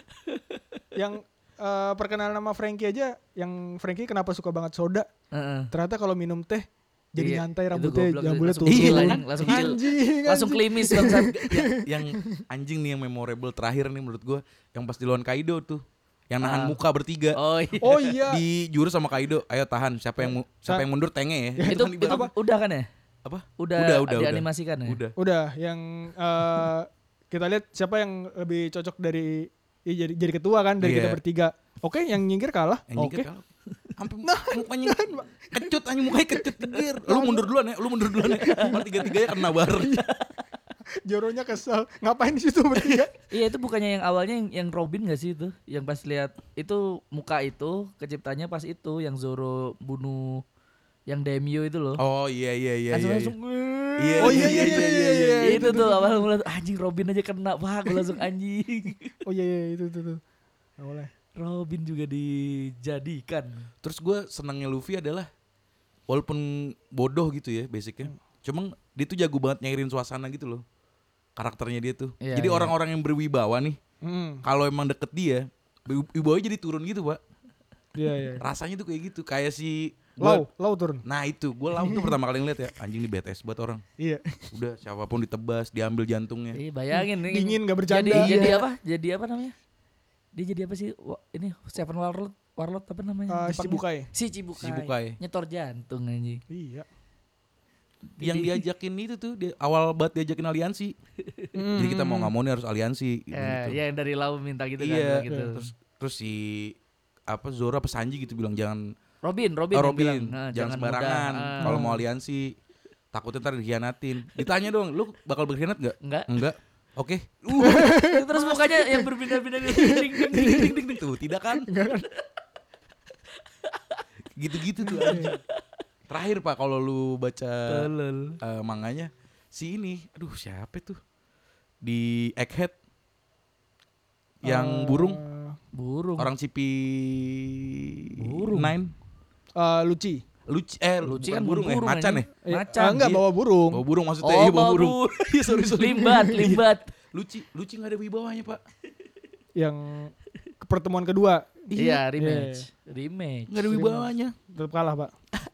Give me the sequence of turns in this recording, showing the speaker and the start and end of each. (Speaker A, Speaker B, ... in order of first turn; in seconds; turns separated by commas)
Speaker A: 0.2-0.8, Speaker B: 0.9-5.1, Speaker A: 5.3-5.7, Speaker B: 5.7-12.4, Speaker A: 7.2-11.5, Speaker C: 8.7-9.7, Speaker C: 11.3-17.4, Speaker A: 16.4-16.8, Speaker A: 17.3-18.2, Speaker B: 17.8-18.4, Speaker C: 18.2-22.3, Speaker B: 20.3-20.9, Speaker B: 21.6-22.3, Speaker A: 21.7-22.9, Speaker C: 23.2-25.1, Speaker A: 23.6-25.0, Speaker B: 25.2-33.3, Speaker C: 30.8-31.2, Speaker C: 32.9-40.0, Speaker B: 34.2-37.5, Speaker B: 38.2-40.1, Speaker A: 38.2-39.1, Speaker A: 40.0-40.3, Speaker B: 41.0-43.1, Speaker C: 42.8-43.0, Speaker A: 43.3-50.4, Speaker A: 51.1-52.0, Speaker C: 52.0-53.4, Speaker A: 52.9-59.1, Speaker C: 54.0-55.8, Speaker B: 54.2-56.3, Speaker B: 59.2-60.2, Speaker B: 60.8-61.1, Speaker A: 61.4-63.7, Speaker C: 63.8-65.3, Speaker C: 66.1-70.6, Speaker C: 71.4-73.8, Speaker A: 72.2-72.7, Speaker B: 74.0-74.4, Speaker C: 74.4-77.2, Speaker B: 78.0-78.4, Speaker C: 78.4-80.5, Speaker B: 80.2-81.0, Speaker C: 81.0-83.8, Speaker B: 81.8-82.2, Speaker B: 84.0-84.5, Speaker C: 84.5-86.6, Speaker A: 86.5-89.5, Speaker B: 86.9-88.7, Speaker C: 88.1-88.6, Speaker A: 90.3-96.4, Speaker B: 93.3-94.1, Speaker C: 94.6-95.2, Speaker B: 96.5-96.9, Speaker A: 98.2-98.6, Speaker C: 98.2-101.0, Speaker A: 101.3-101.5, Speaker B: 101.5-102.3, Speaker C: 101.8-103.8, Speaker A: 103.3-105.7, Speaker C: 104.8-106.8, Speaker C: 107.3-108.8, Speaker A: 109.2-111.9, Speaker C: 109.7-112.5, Speaker B: 111.6-112.0, Speaker C: 113.1-118.0, Speaker A: 116.0-116.3, Speaker A: 117.5-121.0, Speaker B: 117.6-120.8, Speaker C: 120.3-121.7, Speaker B: 121.7-122.1, Speaker A: 123.7-124.0, Speaker C: 124.4-125.3, Speaker B: 124.8-125.3, Speaker A: 124.9-125.4, Speaker C: 126.1-127.9, Speaker A: 127.7-128.4, Speaker C: 128.4-131.0, Speaker C: 131.8-132.8, Speaker C: 134.4-135.2, Speaker B: 134.4-135.6, Speaker A: 135.7-136.3, Speaker C: 136.2-138.9, Speaker A: 138.2-138.8, Speaker B: 139.6-140.2, Speaker C: 140.5-148.6, Speaker A: 141.0-143.0, Speaker B: 142.4-143.8, Speaker A: 144.2-146.9, Speaker B: 149.6-152.7, Speaker A: 151.7-154.0, Speaker C: 153.5-154.3, Speaker B: 154.5-155.1